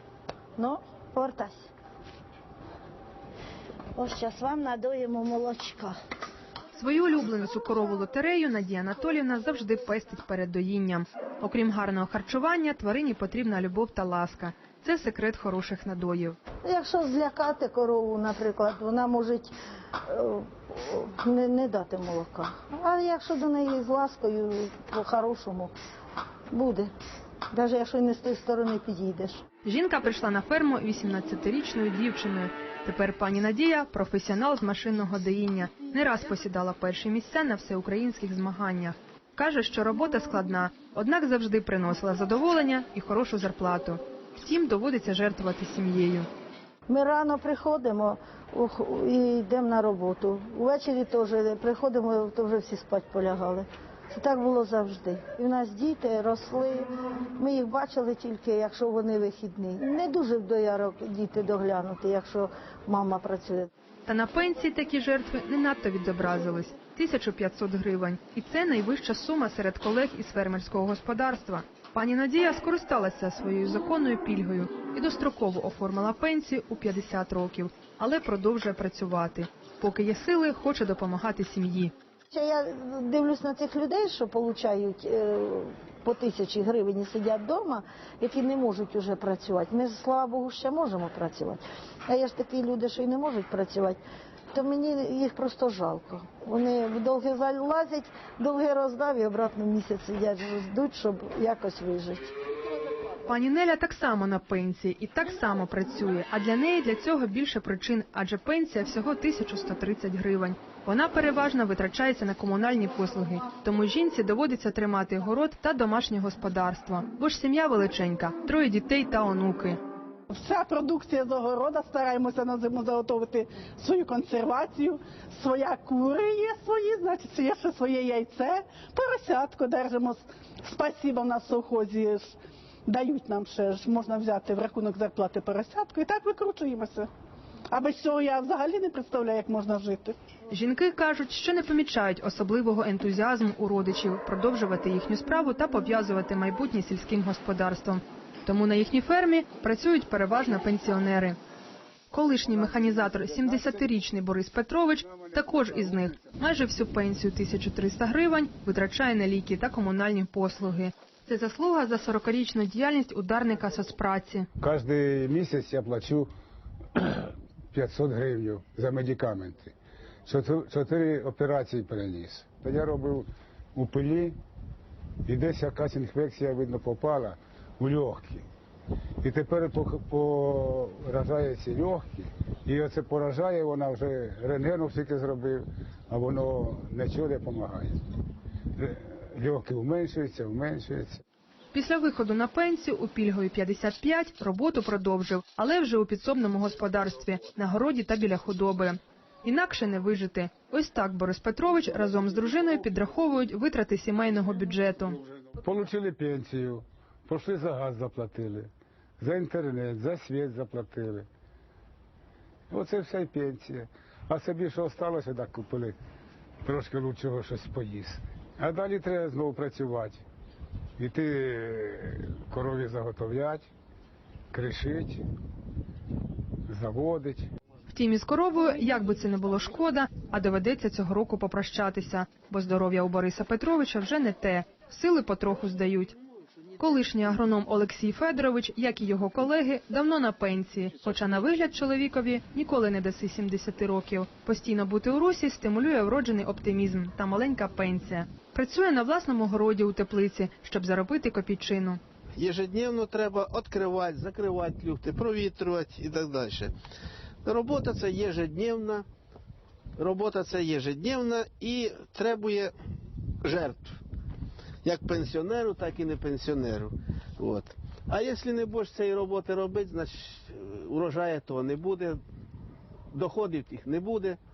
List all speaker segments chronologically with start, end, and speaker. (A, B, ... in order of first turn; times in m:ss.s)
0:00.6-0:01.7 A
0:04.0-0:06.0 A
0:06.7-0:16.4 B
0:16.6-0:19.5 A
0:20.1-0:25.7 A
0:26.5-0:26.9 A
0:27.5-0:29.4 A
0:29.6-0:46.3 B
0:46.9-1:03.7 A
1:04.1-1:21.9 B
1:22.3-1:34.0 A
1:34.5-1:42.3 A
1:43.3-1:59.8 B
2:00.3-2:17.1 C
2:17.7-2:20.2 C
2:20.5-2:31.4 B
2:32.1-2:44.5 B
2:44.6-2:46.3 D
2:46.9-2:49.7 D
2:50.2-2:54.4 D
2:55.2-2:58.4 D
2:59.2-3:08.0 D
3:08.8-3:11.2 D
3:11.7-3:25.2 B
3:25.6-3:31.3 D
3:32.7-3:36.0 D
3:36.6-3:40.2 D
3:41.0-3:43.7 D
3:44.5-3:45.2 D
3:46.7-3:47.5 D
3:47.9-3:56.2 B
3:56.8-4:12.0 B
4:12.4-4:16.7 E
4:17.4-4:19.1 E
4:20.0-4:22.7 E
4:23.4-4:24.0 E
4:24.8-4:32.2 E
4:33.1-4:34.4 E